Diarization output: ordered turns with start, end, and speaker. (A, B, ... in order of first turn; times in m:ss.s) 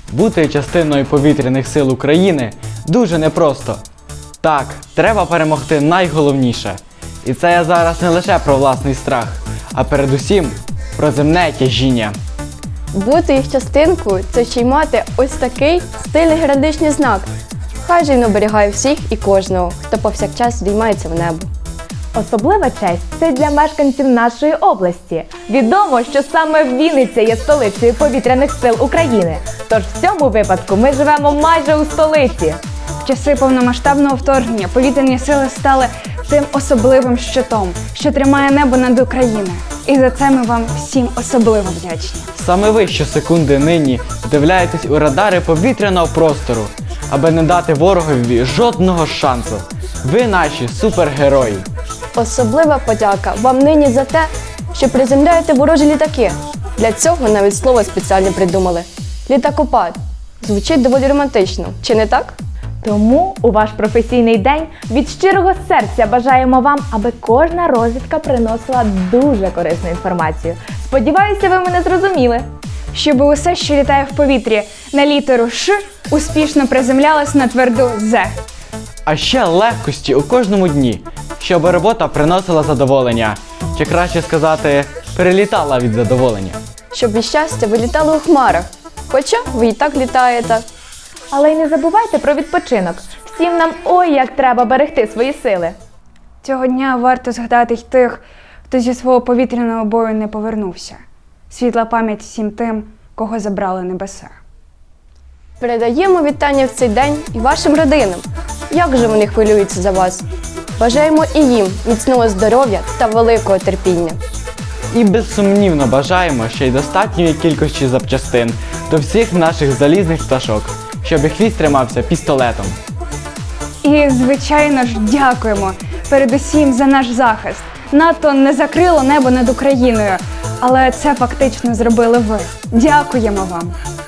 0:00.1-0:03.8 A
0:04.4-0:12.2 A
0:12.9-0:17.3 B
0:17.8-0:21.5 B
0:22.2-0:32.6 C
0:33.0-0:42.3 D
0:42.4-0:51.6 A
0:52.2-1:02.4 B
1:02.8-1:12.5 C
1:12.9-1:18.3 D
1:19.1-1:26.6 A
1:26.9-1:30.6 B
1:31.3-1:35.8 C
1:36.4-1:44.4 D
1:45.6-1:50.2 B
1:50.8-1:54.2 B
1:54.9-2:02.8 A
2:03.8-2:13.8 D